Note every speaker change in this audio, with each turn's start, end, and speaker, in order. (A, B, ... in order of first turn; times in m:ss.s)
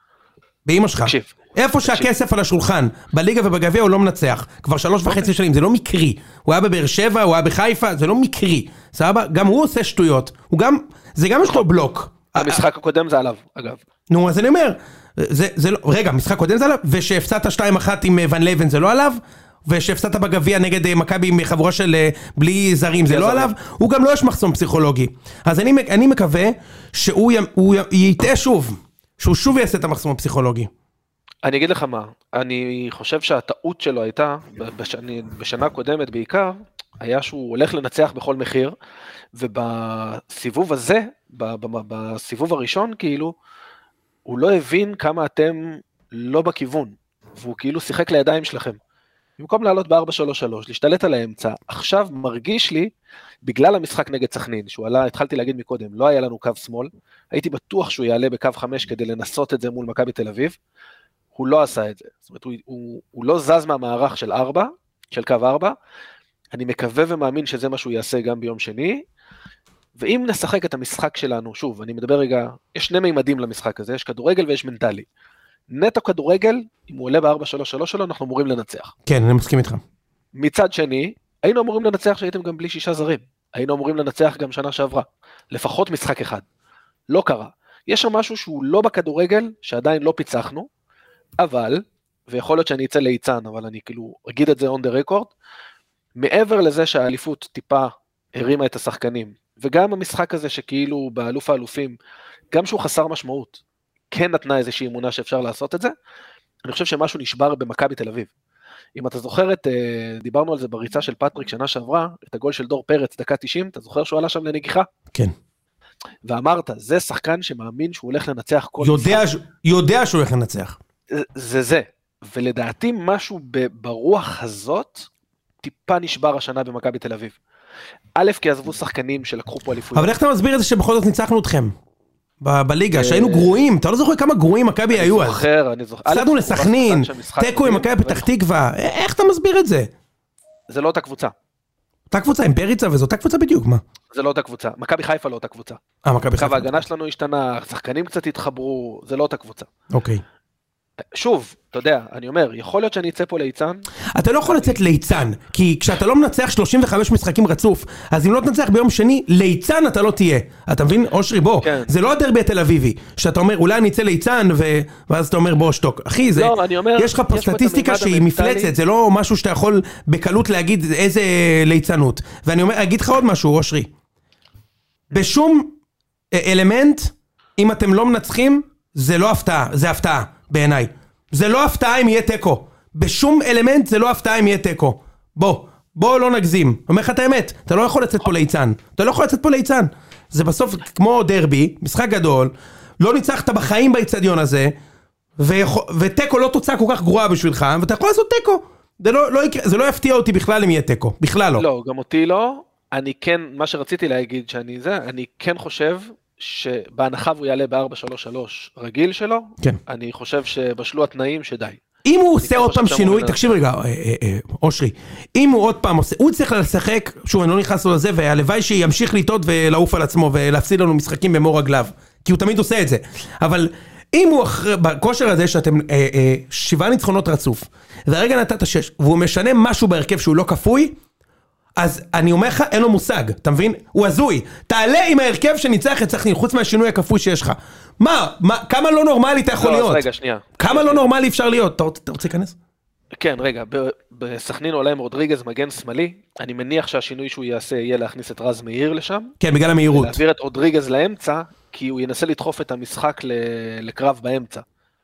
0:00.6-0:12.6 A
0:01.0-0:02.1 B
0:12.3-0:13.8 B
0:14.1-0:30.7 A
0:23.1-0:23.5 B
0:31.4-0:38.7 B
0:39.3-0:43.3 B
0:44.3-0:48.8 B
0:49.4-0:52.9 B
0:53.4-1:00.6 B
1:01.4-1:05.7 B
1:06.5-1:09.0 B
1:10.0-1:15.1 B
1:15.7-1:18.9 B
1:19.1-1:19.8 A
1:20.4-1:26.4 B
1:27.1-1:30.7 B
1:31.4-1:35.3 B
1:36.2-1:42.0 B
1:42.5-1:43.6 B
1:44.1-1:45.9 B
1:46.6-1:48.3 B
1:49.0-1:54.9 B
1:56.2-1:59.2 B
1:58.8-2:00.8 A
2:01.1-2:05.1 B
2:05.6-2:07.4 B
2:08.2-2:10.1 B
2:09.9-2:11.7 A
2:12.4-2:15.4 A
2:12.9-2:13.6 B
2:14.9-2:18.3 B
2:16.1-2:19.9 A
2:20.7-2:21.3 B
2:22.1-2:23.8 A
2:24.1-2:25.8 B
2:26.0-2:26.8 A
2:26.4-2:29.7 B
2:29.9-2:30.2 A
2:31.1-2:33.9 B
2:34.2-2:53.9 A
2:34.4-2:34.7 B
2:41.6-2:41.9 B
2:46.3-2:48.7 B
2:55.1-2:55.7 A
2:56.3-3:14.7 A
3:15.4-3:21.6 A
3:21.6-3:31.8 B
3:32.0-3:51.0 A
3:32.4-3:33.5 B
3:51.8-4:00.0 A
3:59.6-4:01.0 B
4:00.6-4:02.6 A
4:03.2-4:09.4 B
4:09.4-4:10.2 A
4:09.9-4:14.6 B